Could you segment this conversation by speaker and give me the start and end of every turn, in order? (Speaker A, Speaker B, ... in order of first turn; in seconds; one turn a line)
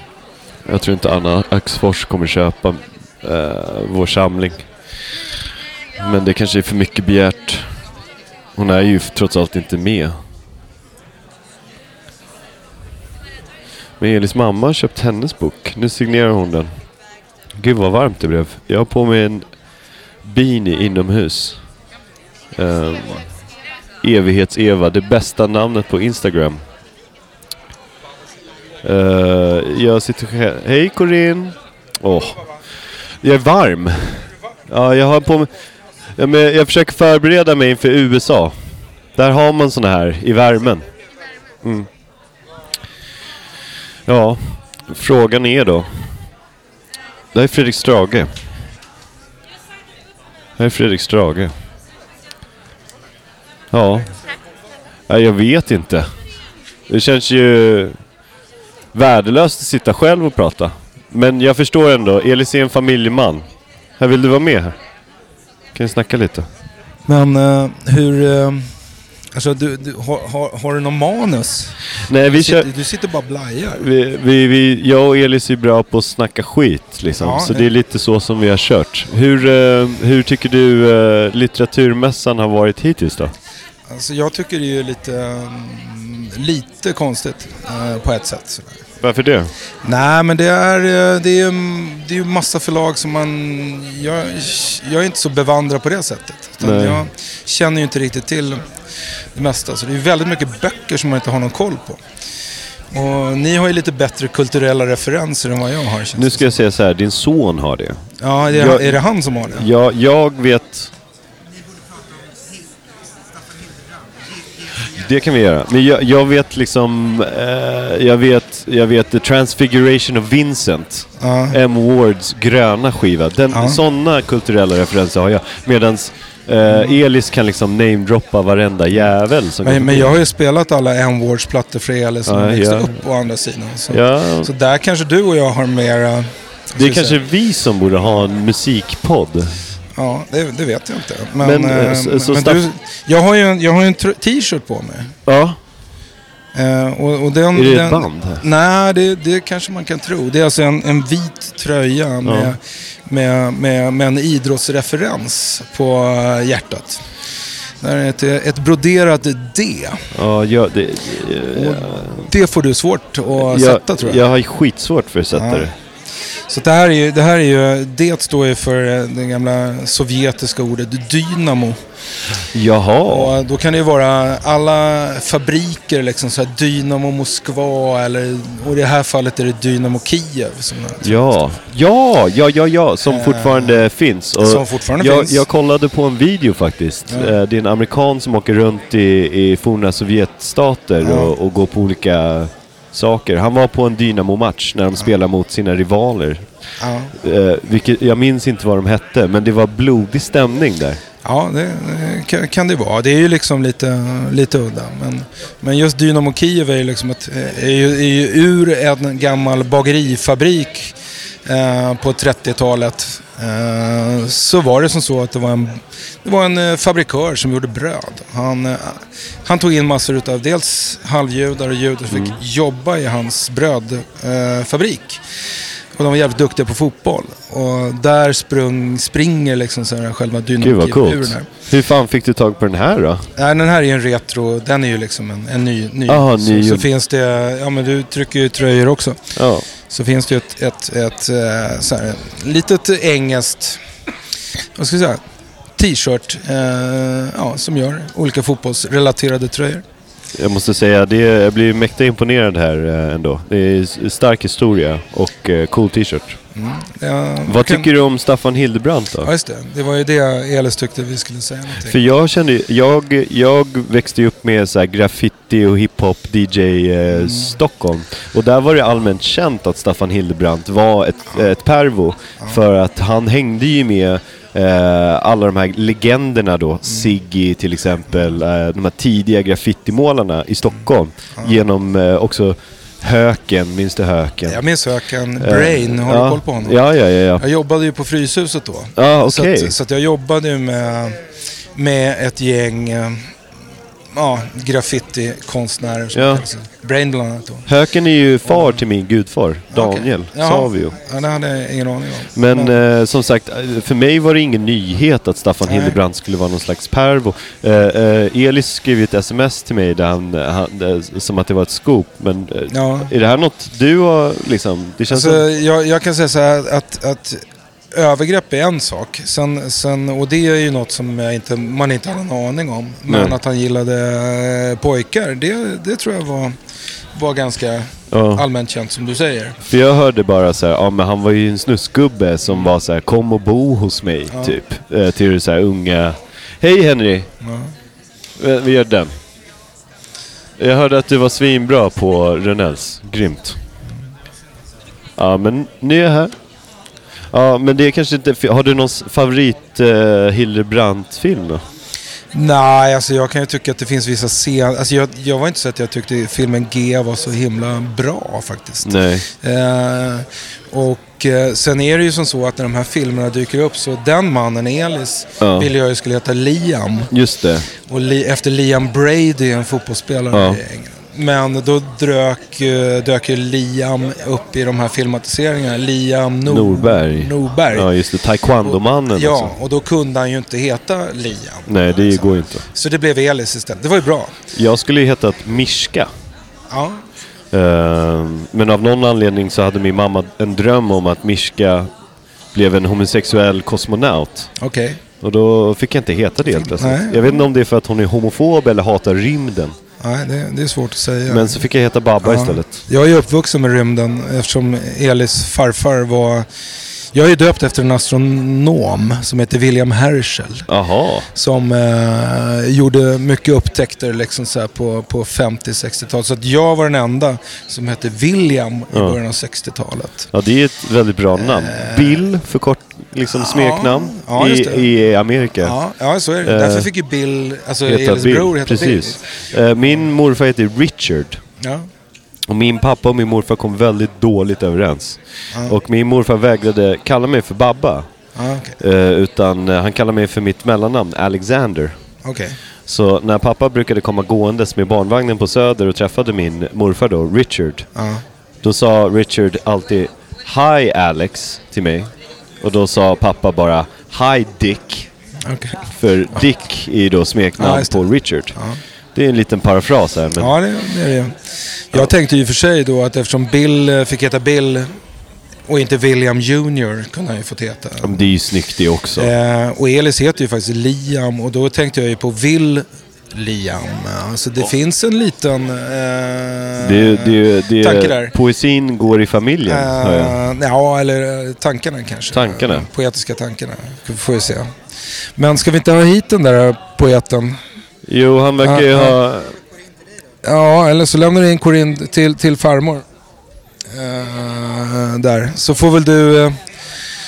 Speaker A: 0.6-5.1
Speaker A: 6.0-7.9
Speaker A: 8.6-10.2
Speaker A: 14.0-16.9
Speaker A: 17.5-21.8
Speaker A: 22.6-23.4
Speaker A: 24.0-26.6
Speaker A: 28.8-40.9
Speaker A: 41.6-41.9
Speaker A: 44.1-46.3
Speaker A: 47.3-48.4
Speaker A: 50.6-51.5
Speaker A: 53.7-54.2
Speaker A: 55.1-56.2
Speaker A: 56.9-58.1
Speaker A: 58.9-64.8
Speaker A: 65.7-66.5
Speaker B: 67.1-73.9
Speaker A: 72.0-72.7
Speaker A: 73.8-83.3
Speaker B: 77.2-77.7
Speaker B: 83.9-88.8
Speaker A: 89.0-89.5
Speaker B: 89.8-102.1
Speaker A: 96.6-97.1
Speaker B: 102.9-106.5
Speaker A: 106.1-110.9
Speaker B: 108.2-109.7
Speaker A: 114.9-130.2
Speaker B: 121.2-121.6
Speaker B: 123.5-123.8
Speaker B: 126.7-127.0
Speaker B: 129.6-137.2
Speaker A: 132.2-133.0
Speaker A: 133.9-134.5
Speaker A: 136.8-139.6
Speaker B: 139.9-145.2
Speaker A: 141.4-142.6
Speaker A: 145.2-145.6
Speaker B: 146.5-160.1
Speaker A: 147.5-148.4
Speaker A: 152.2-152.6
Speaker A: 160.1-162.3
Speaker B: 161.5-164.2
Speaker A: 163.4-165.7
Speaker B: 165.3-165.7
Speaker B: 166.5-172.4
Speaker A: 172.5-173.3
Speaker B: 173.1-181.3
Speaker A: 181.0-201.0
Speaker B: 183.1-185.4
Speaker B: 187.1-187.4
Speaker B: 191.0-191.3
Speaker B: 196.8-197.1
Speaker B: 201.2-225.2
Speaker A: 222.1-222.4
Speaker B: 225.9-231.5
Speaker A: 230.6-233.3
Speaker B: 233.4-243.8
Speaker A: 236.1-236.9
Speaker A: 239.3-239.7
Speaker B: 244.8-249.8
Speaker A: 250.3-256.4
Speaker B: 256.6-257.9
Speaker A: 257.4-259.3
Speaker B: 259.2-262.0
Speaker A: 261.8-287.4
Speaker B: 267.1-267.6
Speaker B: 276.9-277.1
Speaker B: 280.7-281.6
Speaker B: 284.4-293.3
Speaker A: 288.9-289.8
Speaker B: 294.1-297.7
Speaker A: 296.1-296.4
Speaker A: 297.7-301.0
Speaker B: 298.4-298.8
Speaker B: 299.7-302.8
Speaker A: 302.3-315.4
Speaker B: 305.7-306.0
Speaker B: 312.7-313.1
Speaker B: 315.1-329.6
Speaker A: 323.1-323.4
Speaker A: 328.1-328.4
Speaker A: 329.7-337.3
Speaker B: 337.4-337.7
Speaker A: 338.4-339.2
Speaker A: 340.6-343.6
Speaker A: 345.2-346.3
Speaker A: 347.3-351.6
Speaker B: 352.3-367.2
Speaker A: 358.8-359.3
Speaker A: 365.4-365.7
Speaker A: 367.1-367.7
Speaker B: 367.8-384.4
Speaker A: 370.3-370.6
Speaker A: 376.4-379.6
Speaker A: 381.6-382.6
Speaker A: 384.5-386.1
Speaker B: 386.7-387.0
Speaker A: 387.5-391.9
Speaker A: 392.5-394.6
Speaker B: 394.6-395.0
Speaker A: 395.2-399.8
Speaker B: 396.5-397.3
Speaker B: 400.0-401.7
Speaker A: 401.3-402.8
Speaker B: 402.2-406.5
Speaker B: 407.1-410.8
Speaker A: 410.7-411.3
Speaker B: 411.3-420.3
Speaker A: 418.9-419.2
Speaker A: 420.3-426.9
Speaker B: 421.4-422.2
Speaker B: 423.3-429.2
Speaker A: 427.9-431.4
Speaker B: 431.6-431.9
Speaker A: 432.4-442.2
Speaker B: 438.4-438.8
Speaker B: 442.2-442.6
Speaker A: 442.9-448.0
Speaker B: 447.9-448.2
Speaker A: 448.6-455.1
Speaker B: 455.4-455.8
Speaker A: 455.8-460.5
Speaker B: 457.6-458.8
Speaker B: 460.4-464.9
Speaker B: 465.7-468.2
Speaker A: 468.0-469.3
Speaker B: 469.1-478.3
Speaker A: 476.8-480.4
Speaker B: 479.7-487.6
Speaker A: 482.3-482.9
Speaker A: 488.1-489.6
Speaker B: 488.6-489.2
Speaker B: 490.4-493.1
Speaker B: 493.9-496.9